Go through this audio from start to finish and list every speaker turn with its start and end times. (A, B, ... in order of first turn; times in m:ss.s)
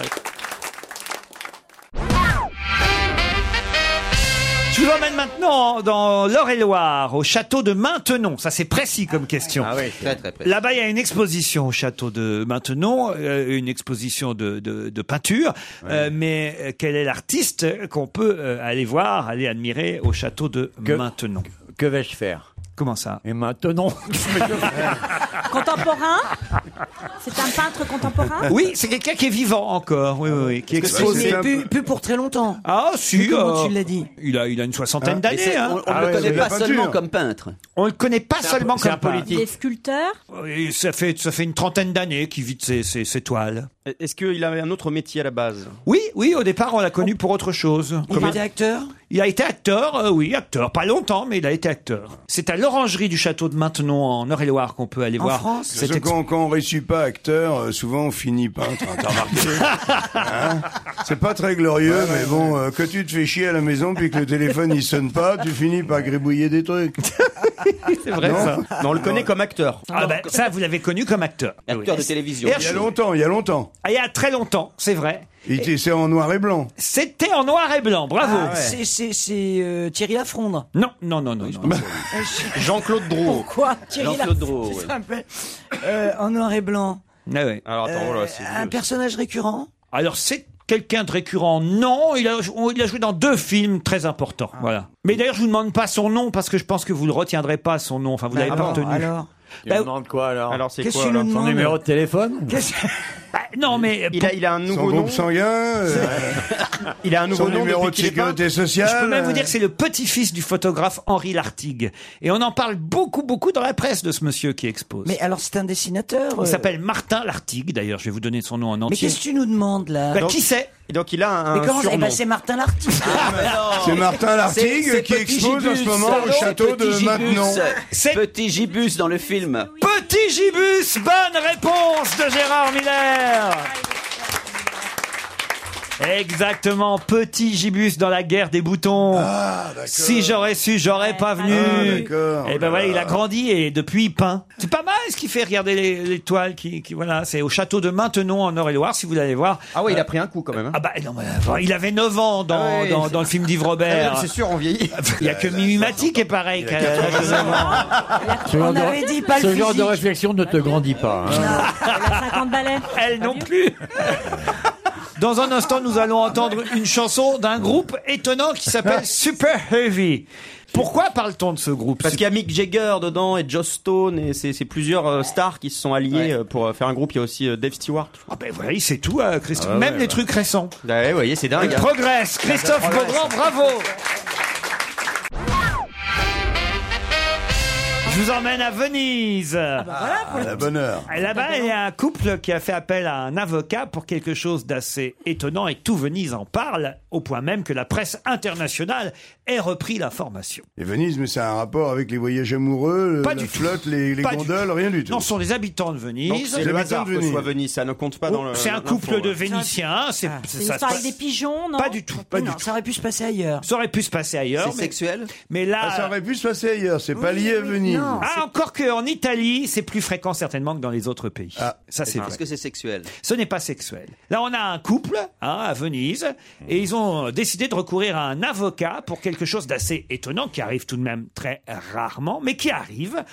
0:04.7-0:09.9 A
0:09.6-0:10.0 B
0:10.0-0:10.5 C
0:10.4-0:21.5 A
0:20.8-0:21.1 B
0:21.6-0:22.5 B
0:22.8-0:23.2 A
0:23.2-0:25.0 B
0:25.5-0:26.3 D
0:27.2-0:28.5 D
0:28.5-0:31.4 A
0:30.8-0:31.4 C
0:30.8-0:32.6 E
0:30.9-0:31.7 F
0:32.6-0:35.8 A
0:33.1-0:34.1 E
0:35.3-0:37.6 C
0:35.9-0:36.5 B
0:35.9-0:37.0 F
0:37.8-0:39.4 A
0:38.4-0:39.5 B
0:39.2-0:40.2 D
0:40.3-0:43.7 A
0:43.8-0:45.8 G
0:45.8-0:48.4 A
0:48.1-0:48.9 E
0:49.1-0:56.1 A
0:55.2-0:55.8 E
0:55.7-1:07.0 F
0:59.7-1:00.2 A
1:07.6-1:08.7 A
1:08.2-1:09.3 F
1:08.8-1:09.8 G
1:09.0-1:10.3 C
1:09.9-1:11.8 A
1:11.7-1:12.9 C
1:12.4-1:12.9 A
1:12.4-1:13.7 F
1:13.8-1:15.3 A
1:15.4-1:16.7 F
1:16.8-1:18.6 A
1:18.2-1:20.7 E
1:20.7-1:21.8 A
1:21.6-1:21.9 C
1:21.7-1:22.0 F
1:22.1-1:27.0 E
1:22.4-1:23.4 G
1:23.2-1:23.8 D
1:24.0-1:24.9 C
1:27.3-1:27.6 A
1:27.6-1:28.7 G
1:27.8-1:29.7 E
1:27.9-1:28.6 C
1:29.9-1:39.1 A
1:38.3-1:39.3 E
1:38.5-1:38.8 G
1:39.6-1:40.6 B
1:40.5-1:41.3 G
1:40.8-1:41.8 E
1:41.2-1:42.6 B
1:42.5-1:43.1 E
1:43.3-1:44.3 A
1:44.1-1:45.3 G
1:44.7-1:46.5 F
1:46.1-1:46.3 B
1:47.0-1:48.4 G
1:47.3-1:49.5 F
1:48.8-1:55.2 A
1:55.0-1:56.7 E
1:56.4-1:59.2 A
1:58.9-2:00.3 E
2:00.1-2:00.7 A
2:00.2-2:02.2 G
2:01.5-2:03.4 E
2:03.0-2:09.8 C
2:03.1-2:07.7 F
2:03.1-2:03.5 A
2:06.0-2:06.6 A
2:07.8-2:08.2 A
2:09.4-2:09.7 D
2:09.8-2:13.7 A
2:16.0-2:19.3 A
2:19.1-2:20.4 F
2:19.9-2:30.0 A
2:20.9-2:22.1 D
2:21.4-2:23.2 F
2:29.7-2:30.8 G
2:30.7-2:34.3 A
2:32.5-2:35.1 G
2:34.9-2:37.8 A
2:35.2-2:37.9 F
2:36.8-2:37.7 G
2:37.4-2:39.7 D
2:38.4-2:41.7 B
2:38.5-2:40.0 E
2:40.4-2:43.5 D
2:41.3-2:41.7 E
2:41.6-2:44.3 A
2:45.2-2:52.2 A
2:52.0-2:58.2 G
2:58.3-3:00.7 A
2:59.5-3:00.2 B
3:00.8-3:01.9 G
3:01.6-3:03.9 A
3:02.7-3:03.3 G
3:08.0-3:09.9 A
3:09.8-3:11.8 D
3:09.9-3:10.6 E
3:10.0-3:11.1 F
3:11.1-3:20.6 A
3:20.8-3:25.3 F
3:23.2-3:26.6 A
3:26.2-3:29.4 G
3:26.6-3:27.5 F
3:28.3-3:31.1 A
3:29.4-3:29.7 E
3:30.6-3:32.3 D
3:31.8-3:32.6 A
3:32.3-3:33.6 E
3:33.6-3:36.1 A
3:34.6-3:35.3 C
3:35.8-3:38.2 F
3:37.1-3:38.4 E
3:38.2-3:42.4 A
3:42.1-3:43.1 C
3:43.2-3:53.2 A